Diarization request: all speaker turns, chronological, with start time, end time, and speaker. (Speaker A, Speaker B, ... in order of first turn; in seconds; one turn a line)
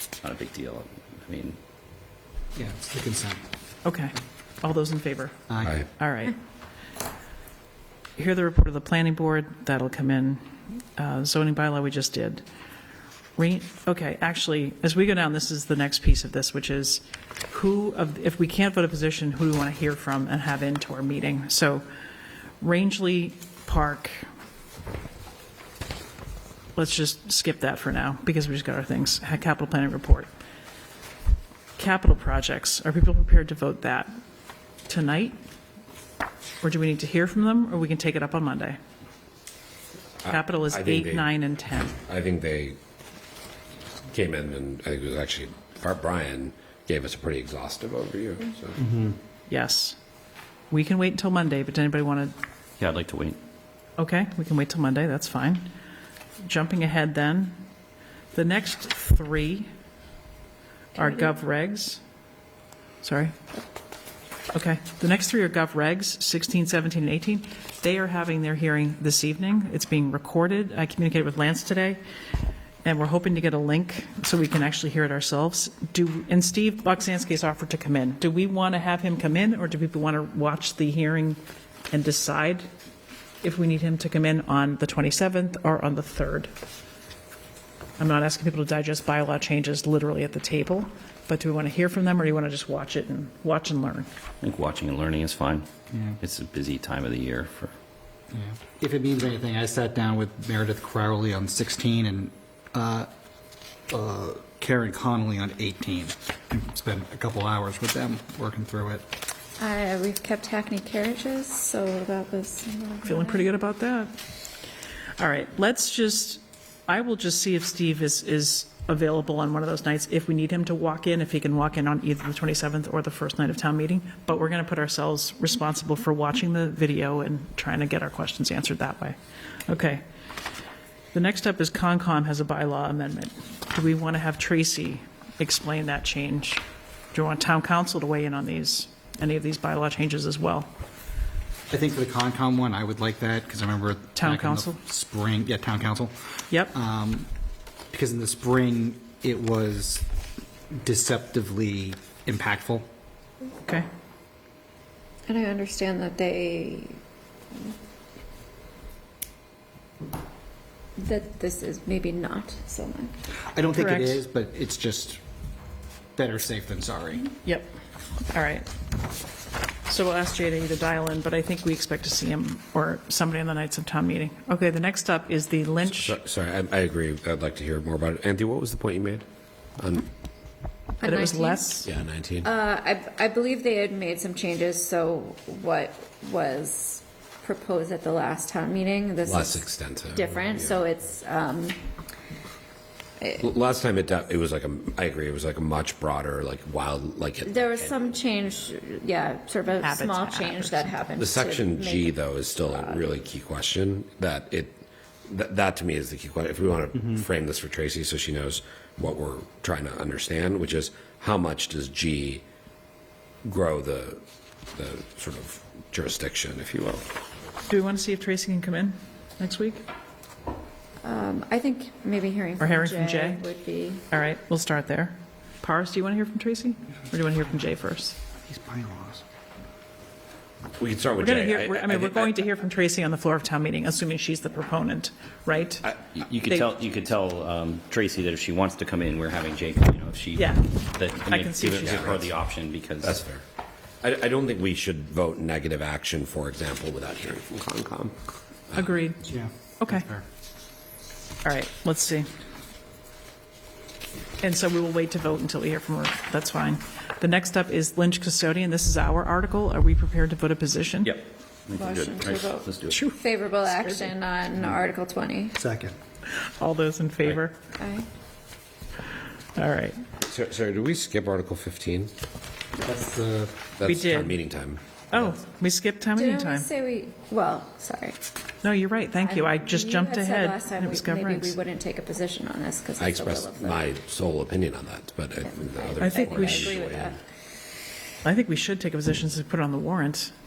Speaker A: 0.2-1.6
Speaker B: 2.5-3.5
Speaker C: 3.9-5.3
Speaker B: 5.5-5.8
Speaker C: 6.0-6.4
Speaker C: 8.2-12.4
Speaker C: 13.4-21.8
Speaker C: 22.6-24.2
Speaker C: 26.8-30.3
Speaker C: 31.8-34.1
Speaker C: 34.9-35.4
Speaker C: 36.6-38.8
Speaker D: 40.2-41.3
Speaker C: 40.3-42.0
Speaker D: 42.0-42.8
Speaker D: 44.1-48.8
Speaker C: 49.5-50.0
Speaker C: 50.7-52.3
Speaker A: 52.8-53.4
Speaker C: 54.0-55.6
Speaker C: 56.4-57.6
Speaker C: 58.3-59.7
Speaker C: 61.0-62.0
Speaker C: 63.0-63.3
Speaker C: 64.5-72.0
Speaker C: 72.8-81.4
Speaker C: 81.9-82.7
Speaker C: 83.4-86.5
Speaker C: 88.0-94.1
Speaker A: 94.4-95.7
Speaker B: 95.9-96.2
Speaker A: 96.2-97.7
Speaker B: 98.3-103.1
Speaker B: 103.9-109.0
Speaker E: 109.6-113.5
Speaker C: 113.0-114.1
Speaker C: 115.2-130.0
Speaker C: 131.1-140.7
Speaker B: 141.7-147.3
Speaker C: 144.2-144.8
Speaker B: 147.9-150.1
Speaker B: 150.7-152.9
Speaker E: 155.3-157.0
Speaker E: 161.0-163.2
Speaker B: 163.5-165.2
Speaker C: 163.8-164.2
Speaker B: 166.2-167.3
Speaker C: 167.4-167.7
Speaker C: 168.3-168.7
Speaker C: 169.9-176.2
Speaker D: 175.9-179.3
Speaker D: 179.8-180.1
Speaker C: 181.0-181.9
Speaker E: 181.0-181.7
Speaker D: 181.7-182.5
Speaker E: 182.4-191.8
Speaker D: 189.2-190.8
Speaker D: 193.4-198.7
Speaker E: 197.4-203.1
Speaker C: 199.8-201.0
Speaker D: 201.2-212.5
Speaker D: 213.4-214.2
Speaker D: 214.8-217.1
Speaker C: 217.7-219.8
Speaker E: 221.0-224.0
Speaker C: 222.6-223.4
Speaker C: 224.1-228.2
Speaker B: 228.4-229.2
Speaker D: 230.8-232.4
Speaker C: 231.2-236.7
Speaker A: 236.1-243.2
Speaker C: 240.4-240.7
Speaker C: 241.3-242.2
Speaker D: 241.8-242.4
Speaker D: 243.0-243.4
Speaker D: 244.0-248.2
Speaker D: 248.7-249.1
Speaker C: 248.8-249.2
Speaker B: 249.2-250.2
Speaker C: 249.8-250.1
Speaker C: 251.4-252.3
Speaker C: 254.4-261.1
Speaker A: 261.0-263.0
Speaker E: 261.7-265.6
Speaker C: 262.9-264.1
Speaker B: 265.6-266.0
Speaker C: 266.3-267.6
Speaker E: 267.8-268.1
Speaker C: 269.6-270.0
Speaker D: 270.3-272.1
Speaker B: 272.8-273.6
Speaker D: 273.8-275.4
Speaker C: 273.9-274.4
Speaker C: 275.1-276.7
Speaker E: 276.2-278.2
Speaker C: 278.6-281.6
Speaker E: 279.2-283.9
Speaker D: 283.0-287.2
Speaker E: 285.4-287.2
Speaker C: 286.0-286.8
Speaker C: 288.2-290.3